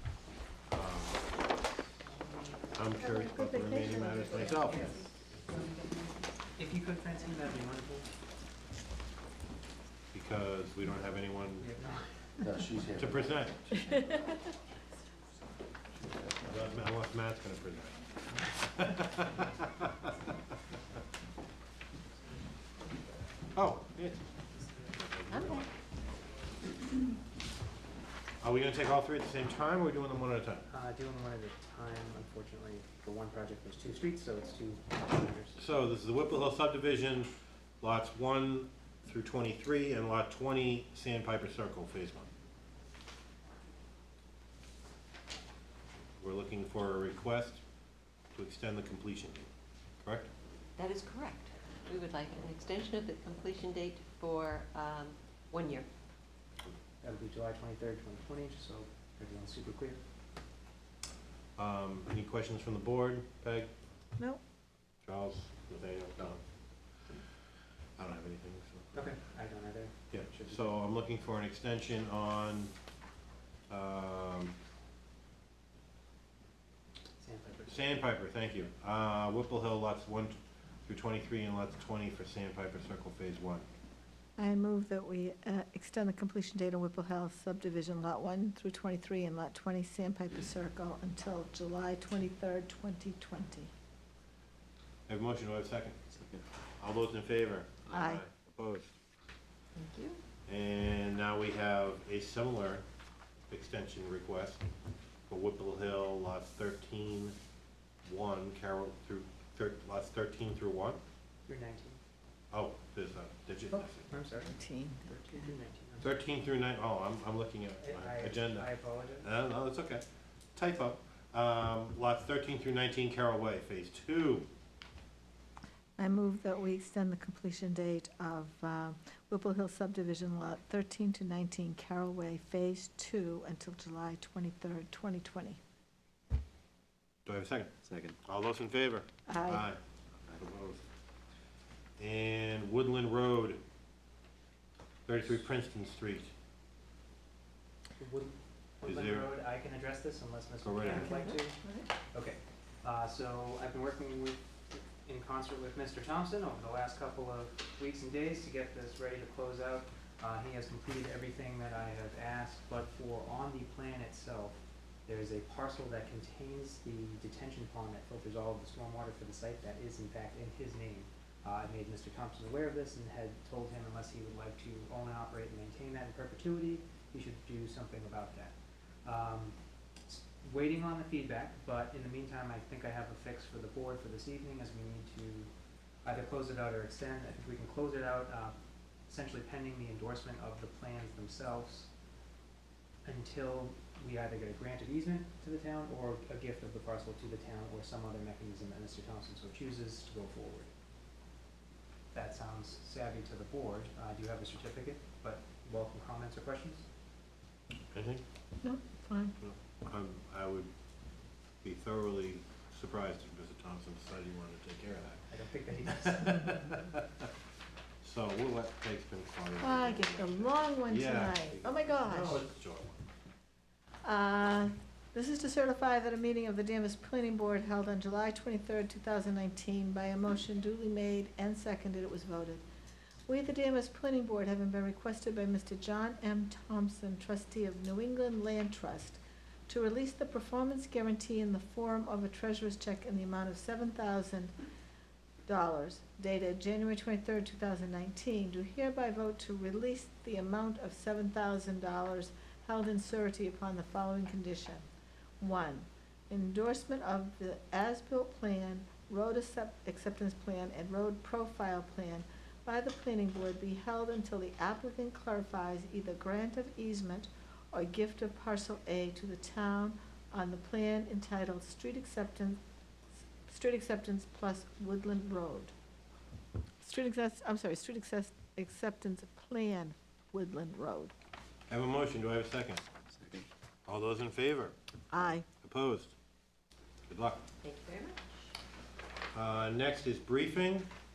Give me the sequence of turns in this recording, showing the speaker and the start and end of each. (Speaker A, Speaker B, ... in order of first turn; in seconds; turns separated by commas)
Speaker A: 0.7-1.3, Speaker B: 2.0-2.7, Speaker A: 2.7-5.0, Speaker C: 3.0-4.7, Speaker B: 4.6-5.1, Speaker D: 5.5-6.3, Speaker B: 6.6-8.1, Speaker A: 10.1-11.7, Speaker B: 11.6-12.4, Speaker E: 12.4-13.8, Speaker A: 13.0-13.7, Speaker E: 16.0-16.7, Speaker A: 16.4-18.2, Speaker A: 18.7-19.4, Speaker A: 23.5-24.3, Speaker A: 24.8-25.7, Speaker D: 25.3-25.6, Speaker A: 28.4-30.7, Speaker B: 30.7-35.6, Speaker A: 35.5-42.3, Speaker A: 46.2-47.6, Speaker A: 48.3-49.5, Speaker A: 50.0-50.3, Speaker D: 50.8-55.9, Speaker B: 57.0-60.0, Speaker A: 61.6-63.7, Speaker A: 65.0-66.4, Speaker A: 68.0-69.0, Speaker B: 68.9-70.7, Speaker A: 70.1-72.7, Speaker A: 73.7-74.5, Speaker B: 77.2-78.0, Speaker A: 77.7-83.7, Speaker C: 84.4-93.7, Speaker A: 95.1-96.0, Speaker E: 96.2-96.4, Speaker A: 96.8-98.9, Speaker C: 97.9-98.2, Speaker D: 99.8-100.2, Speaker A: 100.5-102.8, Speaker A: 103.5-104.6, Speaker A: 105.3-107.3, Speaker A: 108.0-111.0, Speaker B: 111.5-112.0, Speaker A: 112.5-114.2, Speaker B: 113.7-116.1, Speaker C: 114.5-115.5, Speaker A: 116.0-124.5, Speaker B: 117.8-119.3, Speaker C: 126.0-135.6, Speaker A: 137.2-137.7, Speaker E: 137.8-138.1, Speaker A: 138.2-139.8, Speaker C: 139.3-139.7, Speaker A: 140.4-140.8, Speaker A: 142.0-143.6, Speaker A: 145.1-146.3, Speaker B: 148.0-151.6, Speaker A: 148.8-149.3, Speaker A: 150.6-151.1, Speaker C: 150.9-151.9, Speaker B: 152.1-185.5, Speaker B: 186.0-188.5, Speaker B: 189.1-191.9, Speaker B: 193.0-200.7, Speaker B: 202.1-206.8, Speaker A: 207.9-208.2, Speaker C: 208.6-209.3, Speaker A: 209.4-210.7, Speaker A: 211.6-215.2, Speaker B: 215.3-216.7, Speaker A: 215.9-217.0, Speaker A: 218.0-223.0, Speaker C: 219.6-222.4, Speaker C: 224.0-232.6, Speaker C: 233.3-244.5, Speaker C: 245.5-254.8, Speaker C: 255.4-272.6, Speaker C: 273.5-275.7, Speaker C: 276.8-281.1, Speaker A: 281.7-282.8, Speaker E: 283.1-283.5, Speaker A: 283.9-284.7, Speaker C: 285.1-285.4, Speaker A: 285.6-286.1, Speaker A: 287.1-287.5, Speaker D: 287.6-288.3, Speaker A: 289.3-290.9